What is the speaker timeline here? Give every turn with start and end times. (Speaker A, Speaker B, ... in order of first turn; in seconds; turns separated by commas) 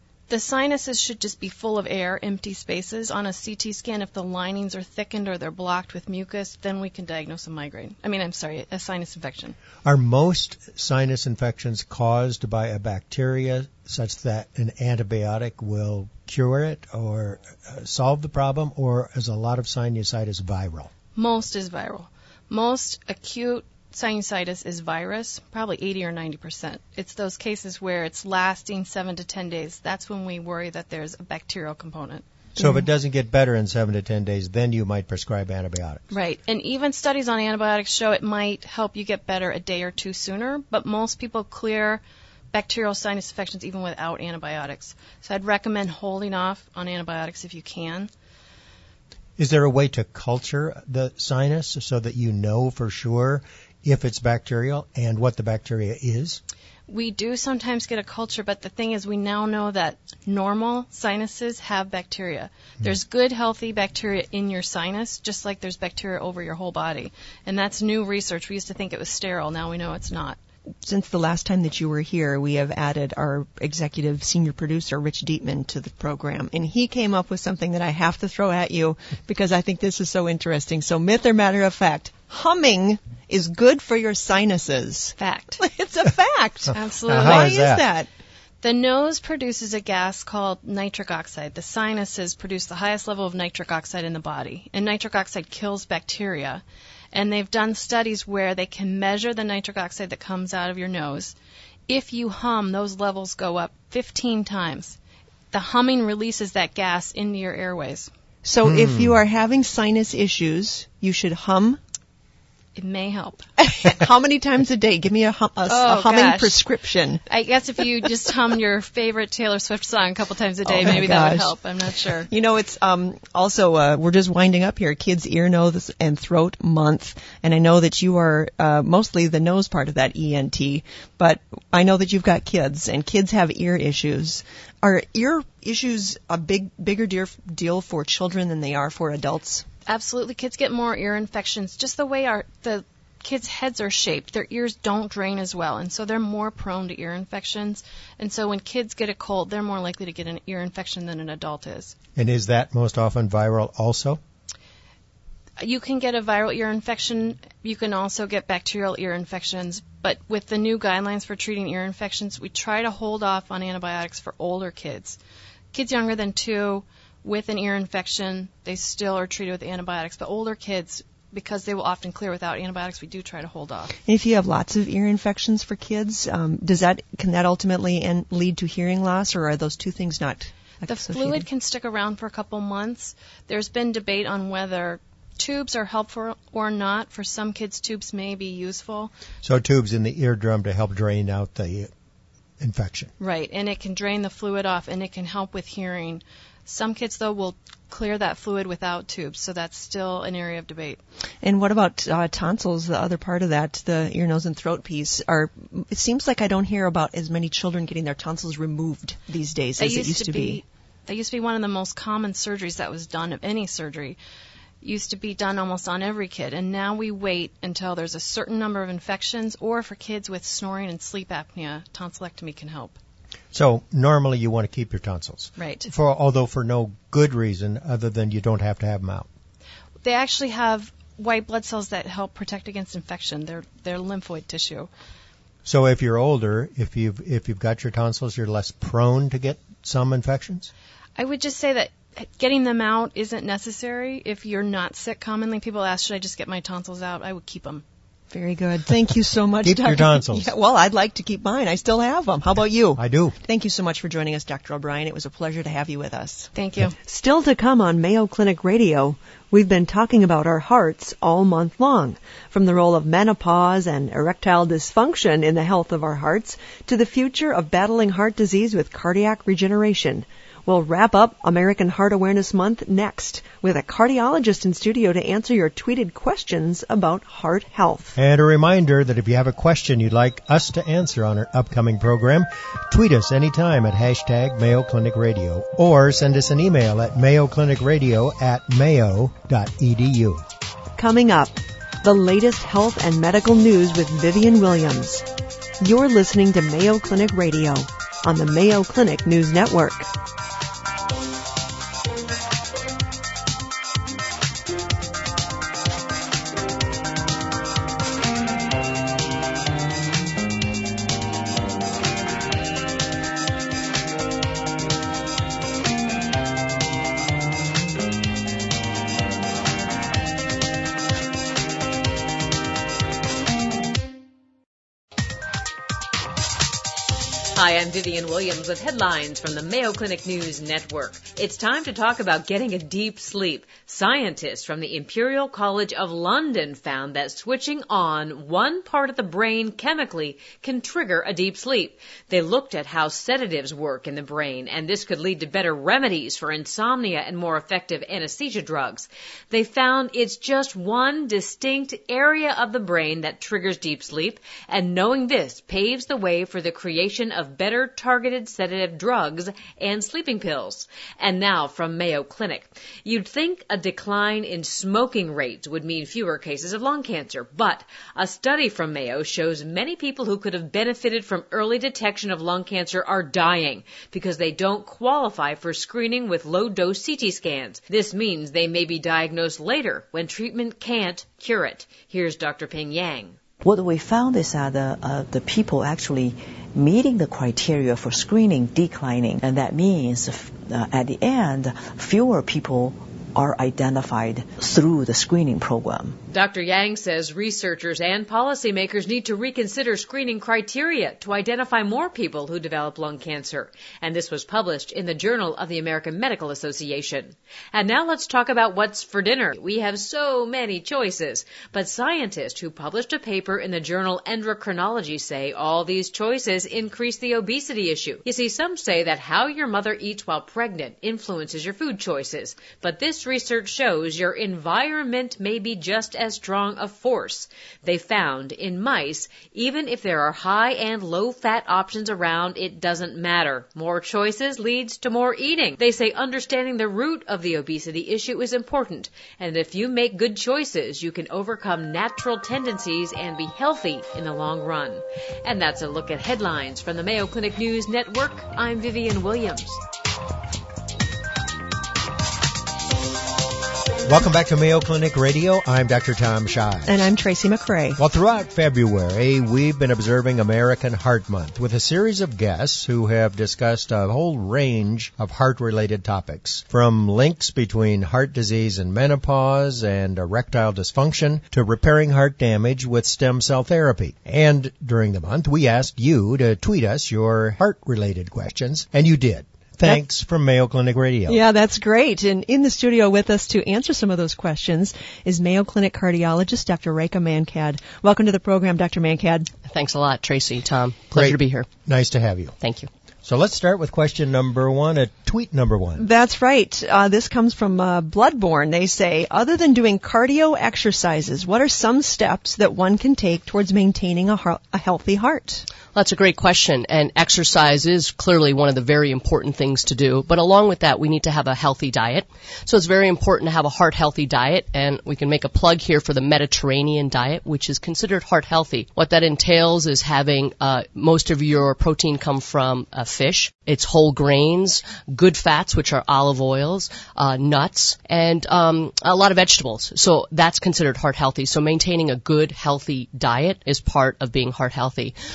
Speaker A: 0.3-9.6, Speaker B: 9.8-20.9, Speaker A: 21.2-32.3, Speaker B: 32.6-36.0, Speaker C: 32.6-32.8, Speaker A: 36.1-42.0, Speaker A: 42.5-48.1, Speaker B: 49.4-56.4, Speaker A: 56.9-70.4, Speaker C: 70.8-88.1, Speaker A: 85.2-85.6, Speaker A: 86.7-87.6, Speaker B: 87.1-87.8, Speaker A: 88.6-101.3, Speaker A: 101.9-105.0, Speaker A: 105.5-108.1, Speaker C: 108.4-111.8, Speaker B: 108.6-109.2, Speaker A: 112.8-113.5, Speaker C: 113.6-117.2, Speaker A: 115.7-116.6, Speaker A: 117.3-122.3, Speaker C: 120.7-121.5, Speaker C: 122.3-139.7, Speaker A: 139.9-151.9, Speaker B: 152.2-154.2, Speaker A: 155.6-165.2, Speaker A: 165.7-173.9, Speaker C: 174.1-181.4, Speaker A: 180.9-189.1, Speaker B: 189.4-191.9, Speaker B: 192.6-193.1, Speaker A: 193.2-201.0, Speaker C: 201.4-210.6, Speaker A: 209.8-214.2, Speaker A: 214.8-223.0, Speaker B: 223.5-229.3, Speaker A: 225.6-225.9, Speaker A: 230.0-234.9, Speaker B: 235.7-240.7, Speaker A: 241.2-247.8, Speaker C: 248.3-278.2, Speaker B: 249.6-250.5, Speaker B: 253.0-253.4, Speaker A: 256.5-257.0, Speaker B: 278.2-290.4, Speaker C: 291.0-295.2, Speaker C: 295.8-300.1, Speaker D: 327.5-383.4, Speaker E: 383.6-396.2, Speaker D: 396.3-449.8, Speaker B: 454.1-457.1, Speaker C: 456.9-458.0, Speaker B: 458.0-481.4, Speaker C: 481.3-489.5, Speaker F: 489.7-491.7, Speaker B: 491.1-492.6, Speaker F: 492.6-492.9, Speaker B: 493.2-496.1, Speaker C: 496.0-505.7, Speaker F: 505.9-535.1